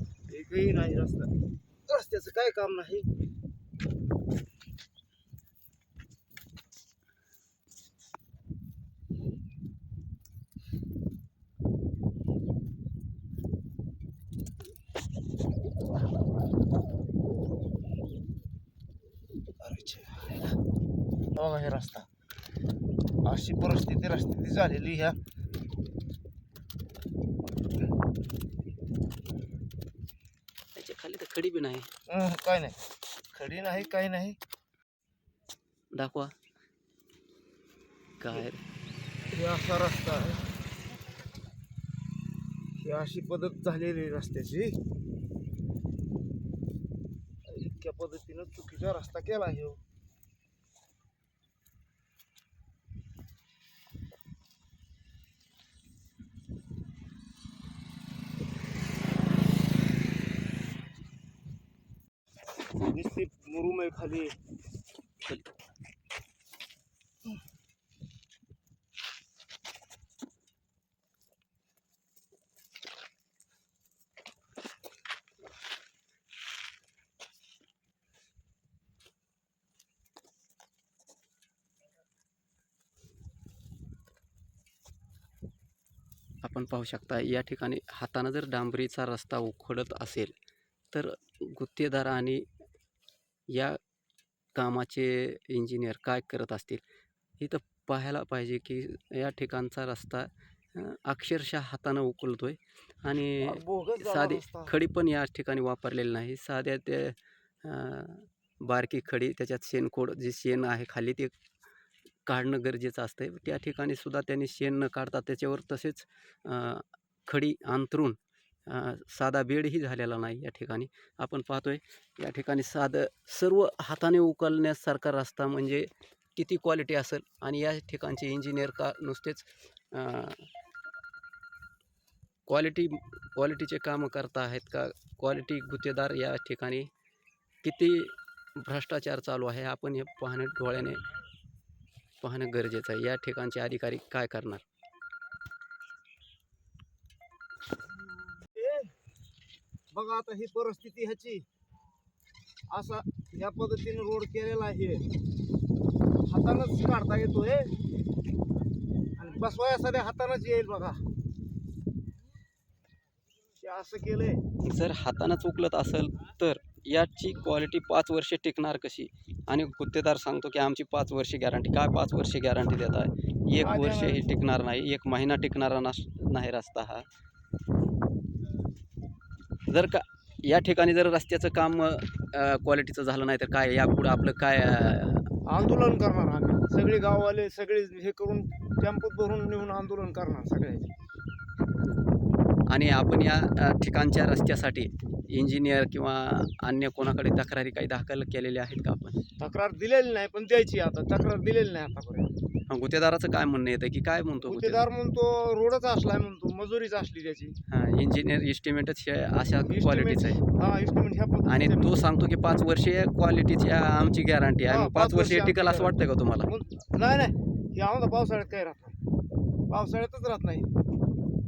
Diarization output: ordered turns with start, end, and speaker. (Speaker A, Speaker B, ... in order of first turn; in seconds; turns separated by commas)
Speaker A: 0.3-1.3, Speaker A: 1.9-3.1, Speaker A: 19.6-20.5, Speaker A: 21.4-22.1, Speaker A: 23.3-25.2, Speaker B: 30.8-31.9, Speaker A: 32.1-32.8, Speaker A: 33.3-34.4, Speaker B: 35.9-36.3, Speaker B: 38.2-38.6, Speaker A: 39.3-40.5, Speaker A: 42.8-44.8, Speaker A: 47.5-49.8, Speaker A: 62.9-64.3, Speaker B: 86.4-90.3, Speaker B: 90.9-92.4, Speaker B: 93.5-93.8, Speaker B: 94.5-96.8, Speaker B: 97.4-111.3, Speaker A: 103.4-104.7, Speaker B: 112.3-130.5, Speaker B: 132.5-136.9, Speaker B: 137.6-141.0, Speaker B: 142.2-144.6, Speaker A: 148.5-148.9, Speaker A: 149.9-151.4, Speaker A: 152.7-155.0, Speaker A: 156.3-157.7, Speaker A: 159.2-161.0, Speaker A: 163.6-164.4, Speaker B: 164.7-177.1, Speaker A: 173.6-174.2, Speaker B: 179.7-185.3, Speaker A: 185.5-190.9, Speaker B: 192.7-199.2, Speaker A: 199.4-202.3, Speaker B: 202.7-204.9, Speaker A: 204.4-207.6, Speaker B: 207.7-210.4, Speaker A: 209.7-211.9, Speaker B: 211.5-216.5, Speaker A: 214.7-218.9, Speaker A: 219.7-220.7